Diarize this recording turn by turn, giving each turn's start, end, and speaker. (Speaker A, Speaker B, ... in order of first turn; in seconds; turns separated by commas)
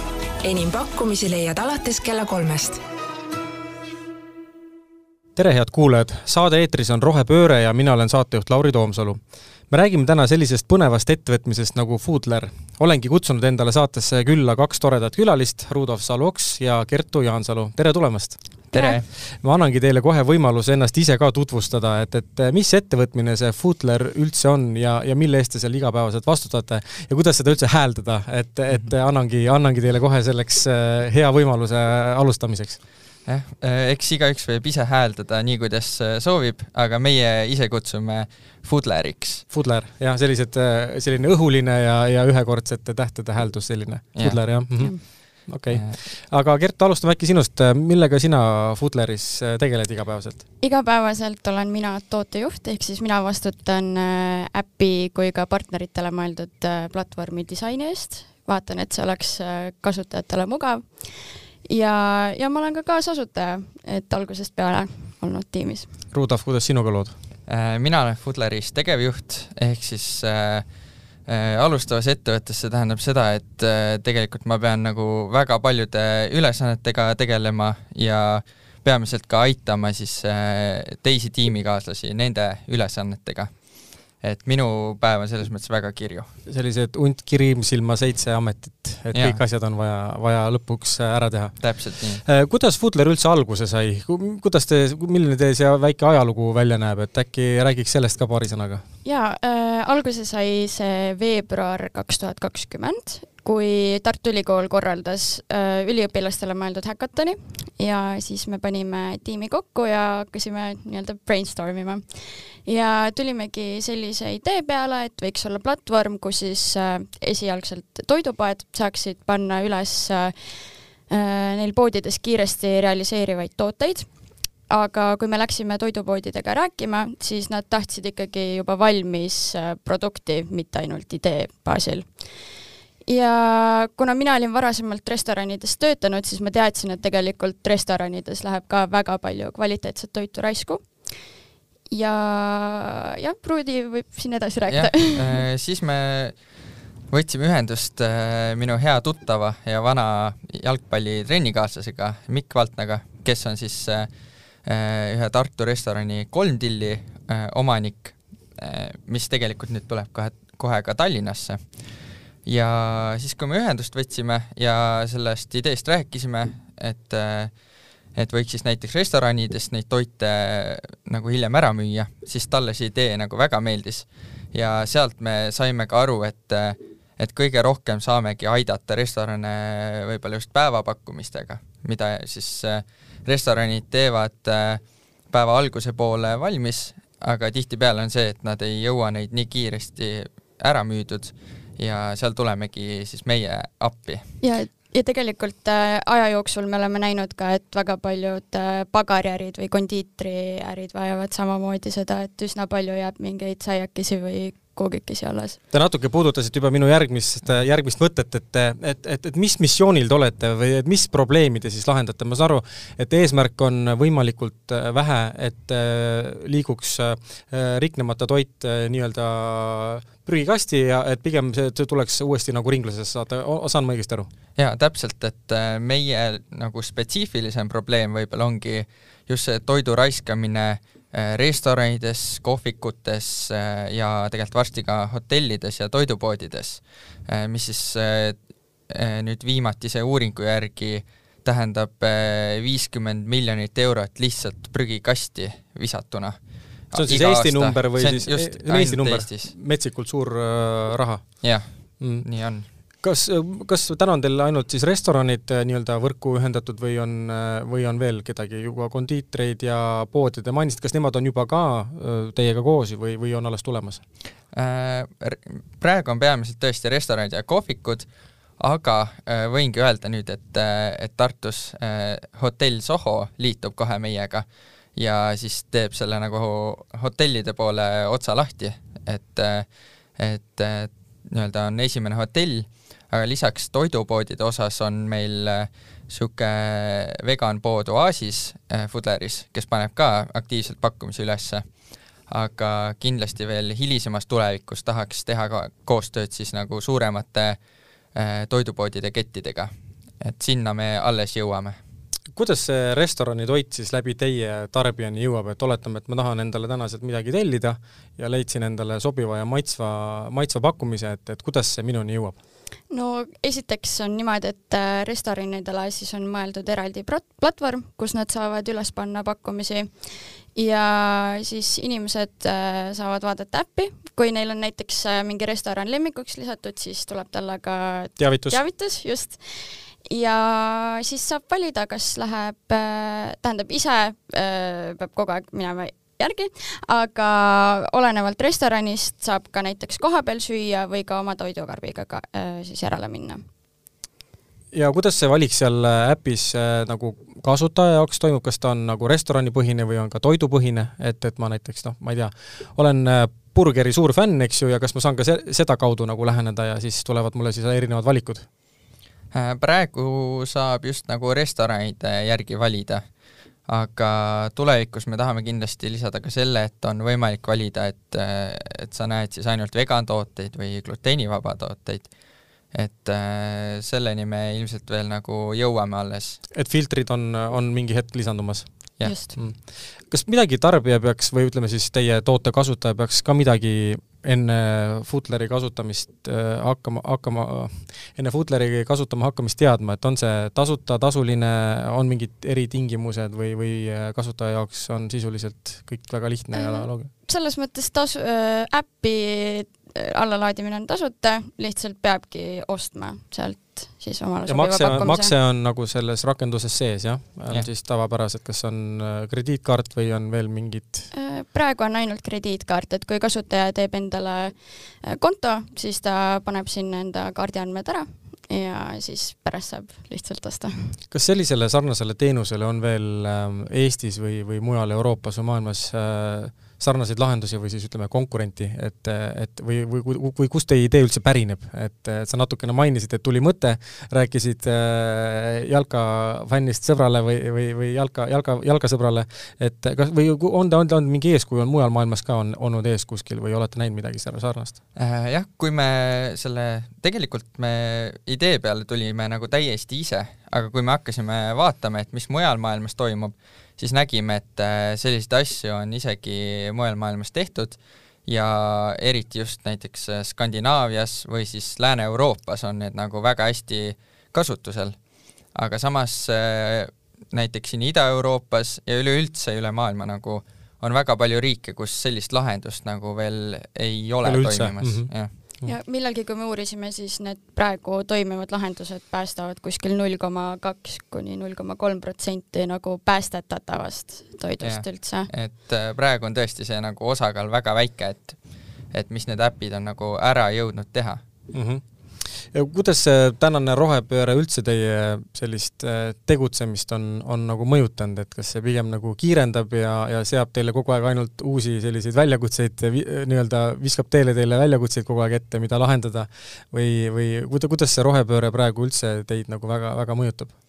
Speaker A: 0.4-2.8, Speaker B: 5.3-9.2, Speaker B: 9.7-18.4, Speaker C: 18.7-19.1, Speaker D: 18.7-19.0, Speaker B: 19.1-32.8, Speaker C: 33.2-39.5, Speaker B: 39.5-50.4, Speaker C: 44.1-44.5, Speaker C: 45.7-46.0, Speaker D: 50.6-65.9, Speaker B: 66.1-67.2, Speaker C: 67.5-70.6, Speaker C: 71.3-83.6, Speaker C: 84.2-86.3, Speaker B: 86.5-91.7, Speaker C: 89.1-89.4, Speaker C: 91.6-92.2, Speaker B: 92.2-98.8, Speaker D: 99.0-112.0, Speaker D: 112.6-120.3, Speaker D: 121.1-124.1, Speaker D: 124.7-132.1, Speaker D: 133.0-140.9, Speaker D: 141.9-145.4, Speaker C: 144.7-146.4, Speaker C: 147.1-154.1, Speaker C: 154.6-161.7, Speaker C: 162.4-167.5, Speaker C: 168.1-194.2, Speaker D: 194.4-205.6, Speaker B: 205.7-224.3, Speaker C: 224.6-238.4, Speaker C: 238.9-246.4, Speaker C: 246.9-249.5, Speaker B: 246.9-251.5, Speaker C: 251.4-252.7, Speaker B: 252.0-252.2, Speaker B: 253.0-264.0, Speaker C: 264.5-268.1, Speaker C: 268.6-291.6, Speaker C: 292.3-297.6, Speaker C: 298.1-301.8, Speaker B: 302.3-312.4, Speaker D: 312.9-319.9, Speaker D: 320.5-329.4, Speaker B: 328.2-328.6, Speaker D: 330.0-343.4, Speaker B: 344.7-358.5, Speaker C: 359.3-363.0, Speaker C: 363.7-372.1, Speaker C: 372.7-376.4, Speaker B: 376.5-397.1, Speaker D: 379.0-379.3, Speaker D: 396.5-405.3, Speaker B: 404.4-411.1, Speaker D: 411.1-421.0, Speaker B: 421.1-444.8, Speaker C: 444.9-465.0, Speaker C: 465.5-475.3, Speaker B: 474.2-475.7, Speaker D: 475.6-485.3, Speaker C: 484.6-488.4, Speaker C: 488.9-491.2, Speaker B: 491.5-510.5